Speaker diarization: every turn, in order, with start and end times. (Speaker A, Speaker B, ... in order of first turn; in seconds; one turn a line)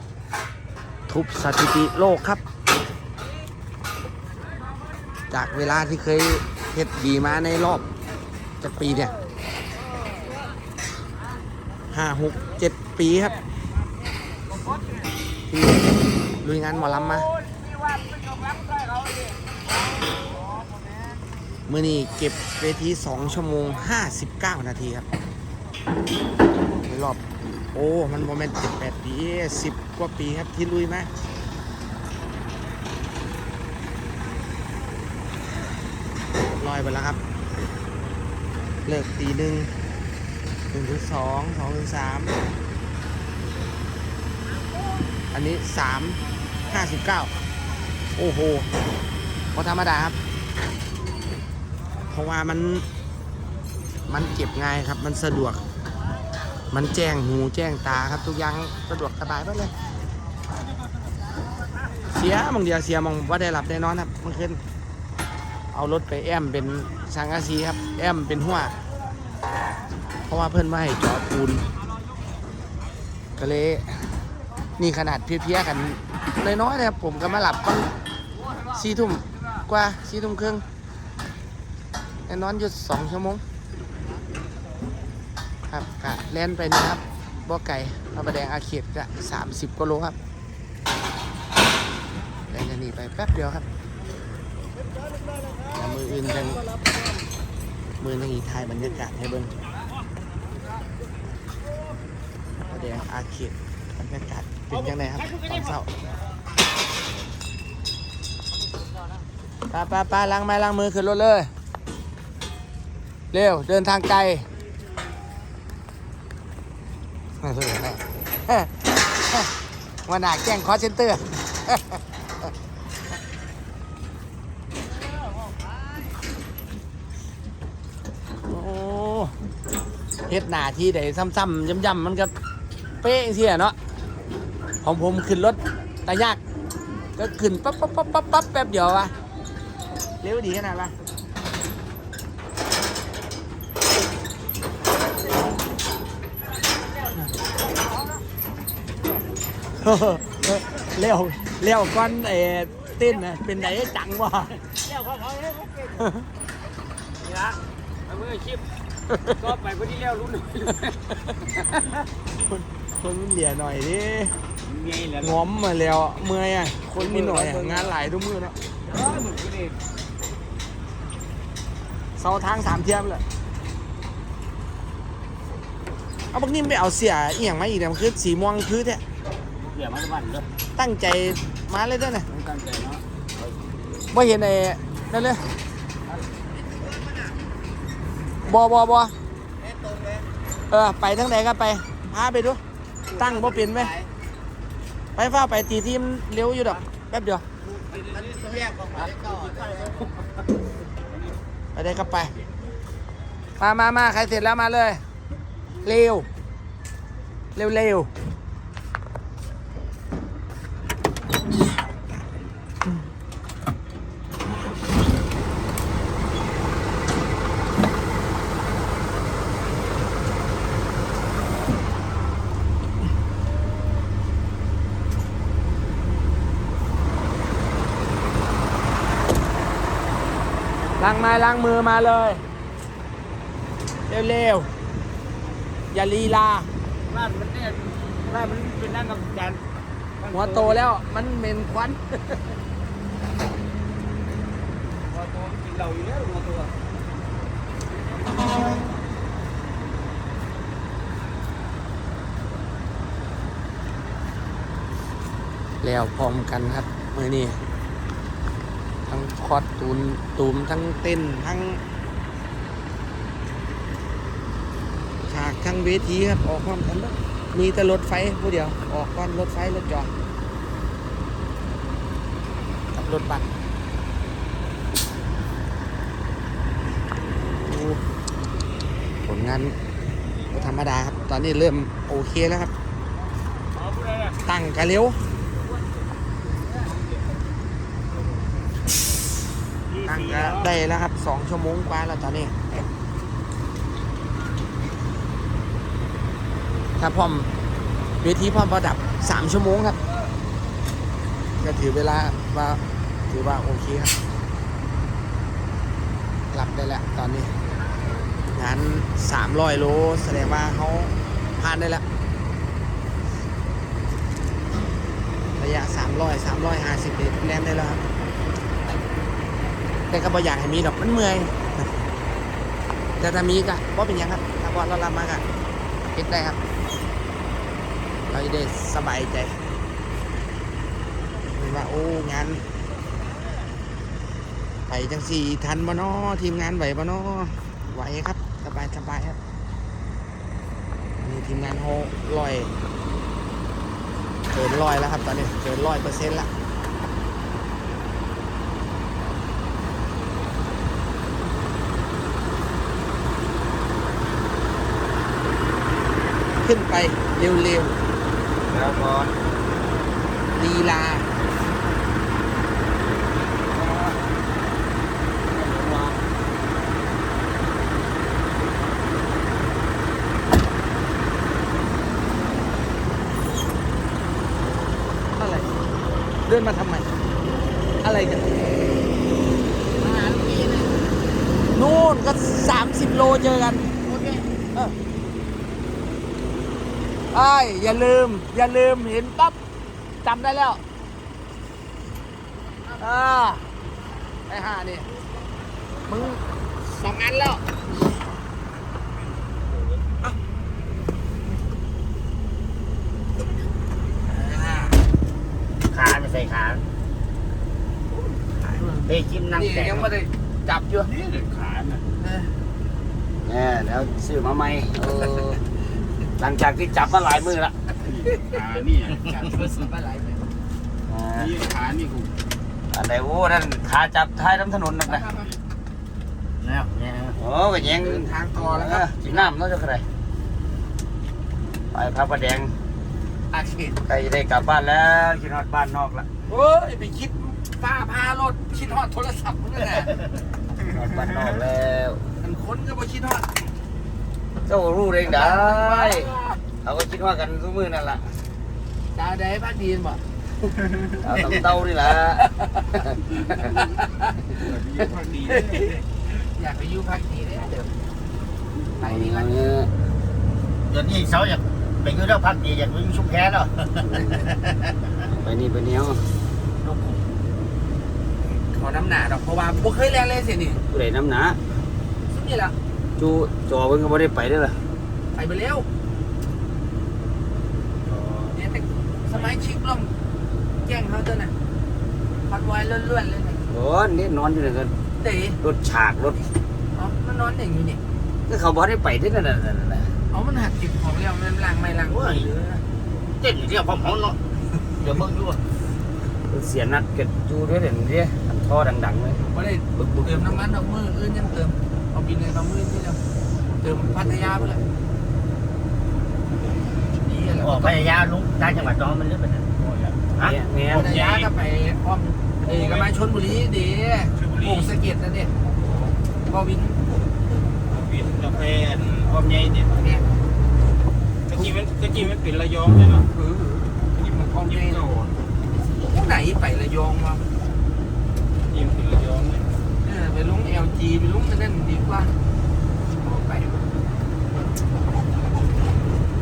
Speaker A: 1.1-2.4
Speaker A: 5.3-7.9
Speaker A: 8.6-9.1
Speaker A: 11.9-13.4
Speaker A: 15.5-15.9
Speaker A: 16.4-17.3
Speaker B: 17.5-19.3
Speaker A: 21.7-25.1
Speaker A: 26.8-27.2
Speaker A: 27.7-31.1
Speaker A: 36.6-37.2
Speaker A: 38.9-39.7
Speaker A: 40.7-42.4
Speaker A: 45.3-47.3
Speaker A: 48.2-48.7
Speaker A: 49.5-50.2
Speaker A: 52.1-52.9
Speaker A: 54.1-55.6
Speaker A: 56.7-59.7
Speaker A: 62.1-64.6
Speaker A: 65.7-68.7
Speaker A: 70.3-71.7
Speaker A: 73.4-74.1
Speaker A: 74.8-77.9
Speaker A: 78.7-80.6
Speaker A: 82.3-83.4
Speaker A: 85.7-90.2
Speaker A: 92.5-93.7
Speaker A: 95.8-96.7
Speaker A: 98.0-99.5
Speaker A: 102.7-105.9
Speaker A: 109.7-111.5
Speaker A: 113.3-114.5
Speaker A: 117.4-119.5
Speaker A: 120.1-122.0
Speaker A: 128.5-129.3
Speaker A: 130.3-132.3
Speaker A: 133.0-133.8
Speaker A: 134.8-136.4
Speaker A: 137.2-139.1
Speaker A: 140.2-140.9
Speaker A: 149.8-154.6
Speaker B: 154.9-156.1
Speaker A: 156.0-156.3
Speaker B: 157.2-158.7
Speaker B: 159.3-160.9
Speaker A: 162.4-164.3
Speaker B: 164.7-165.4
Speaker A: 165.2-168.6
Speaker B: 166.9-168.0
Speaker B: 168.9-169.8
Speaker A: 172.2-173.2
Speaker A: 176.3-179.0
Speaker B: 179.7-180.5
Speaker A: 180.8-182.3
Speaker B: 182.3-183.6
Speaker A: 184.1-185.4
Speaker A: 188.4-189.1
Speaker A: 190.7-192.6
Speaker A: 193.1-193.9
Speaker A: 195.2-197.4
Speaker C: 198.2-199.9
Speaker A: 201.8-202.3
Speaker A: 203.6-205.0
Speaker A: 205.8-206.3
Speaker A: 207.6-208.1
Speaker A: 231.0-232.4
Speaker A: 234.1-234.7
Speaker A: 235.9-236.7
Speaker B: 237.1-239.6
Speaker B: 240.2-240.8
Speaker A: 240.3-242.4
Speaker B: 245.1-246.7
Speaker A: 255.8-257.6
Speaker A: 259.1-261.8
Speaker A: 265.3-270.1
Speaker A: 272.9-273.4
Speaker A: 277.6-278.0
Speaker A: 279.2-279.8
Speaker A: 280.5-282.7
Speaker A: 284.4-285.2
Speaker A: 290.0-292.7
Speaker A: 297.0-297.5
Speaker A: 298.2-300.0
Speaker A: 301.6-304.1
Speaker A: 306.5-307.5
Speaker A: 308.5-312.0
Speaker A: 315.6-318.1
Speaker A: 320.1-321.7
Speaker A: 323.2-325.4
Speaker A: 326.1-326.6
Speaker A: 328.3-329.6
Speaker A: 331.5-332.6
Speaker A: 334.9-339.4
Speaker A: 341.2-342.7
Speaker A: 344.5-346.5
Speaker A: 356.6-357.9
Speaker B: 358.7-359.3
Speaker A: 360.5-361.3
Speaker B: 363.8-364.1
Speaker B: 365.5-366.2
Speaker A: 375.4-375.7
Speaker A: 376.5-377.1
Speaker A: 378.0-378.5
Speaker C: 380.1-380.9
Speaker A: 381.7-383.9
Speaker C: 384.1-384.4
Speaker A: 387.3-389.6
Speaker A: 390.2-390.8
Speaker A: 392.9-393.6
Speaker A: 394.5-395.1
Speaker A: 396.1-397.6
Speaker A: 404.2-405.0
Speaker C: 405.9-406.8
Speaker A: 408.1-411.1
Speaker C: 409.1-410.1
Speaker D: 411.2-411.9
Speaker A: 412.2-412.5
Speaker B: 413.5-415.6
Speaker B: 416.4-417.7
Speaker C: 418.6-419.4
Speaker A: 419.1-420.4
Speaker B: 421.1-421.6
Speaker D: 421.4-422.3
Speaker B: 422.9-425.3
Speaker A: 425.1-425.5
Speaker C: 426.6-427.4
Speaker B: 427.4-430.1
Speaker A: 427.9-429.5
Speaker B: 431.9-432.7
Speaker A: 433.5-434.0
Speaker B: 434.1-436.3
Speaker A: 436.5-440.1
Speaker B: 440.8-442.2
Speaker A: 442.4-443.5
Speaker B: 444.7-448.3
Speaker A: 445.2-446.6
Speaker A: 449.1-450.2
Speaker B: 451.2-452.5
Speaker A: 452.4-454.6
Speaker D: 454.7-456.0
Speaker A: 455.4-457.9
Speaker B: 458.8-459.9
Speaker A: 459.0-459.6
Speaker C: 460.9-464.9
Speaker B: 464.0-464.5
Speaker B: 465.3-466.2
Speaker C: 466.8-467.2
Speaker A: 468.5-470.8
Speaker B: 470.9-471.6
Speaker A: 472.3-472.7
Speaker B: 473.2-474.8
Speaker A: 475.3-475.9
Speaker A: 478.5-480.1
Speaker A: 480.8-481.5
Speaker A: 482.5-483.6
Speaker B: 483.7-484.9
Speaker A: 485.2-485.6
Speaker B: 485.6-486.4
Speaker A: 486.9-488.0
Speaker B: 488.5-490.1
Speaker A: 490.3-492.8
Speaker C: 492.1-492.5
Speaker C: 493.4-494.4
Speaker C: 495.0-495.6
Speaker B: 496.5-499.4
Speaker A: 499.5-503.2
Speaker B: 500.0-500.7
Speaker A: 503.8-504.9
Speaker B: 503.9-504.8
Speaker A: 507.2-508.2
Speaker C: 507.6-511.2
Speaker B: 510.4-511.5
Speaker A: 510.9-515.5
Speaker D: 512.7-513.1
Speaker D: 514.4-514.9
Speaker A: 516.5-517.0
Speaker D: 517.9-520.2
Speaker D: 521.5-523.3
Speaker A: 523.3-525.0
Speaker D: 524.2-525.3
Speaker A: 525.9-527.4
Speaker D: 528.7-529.7
Speaker A: 530.0-532.3
Speaker A: 533.2-533.8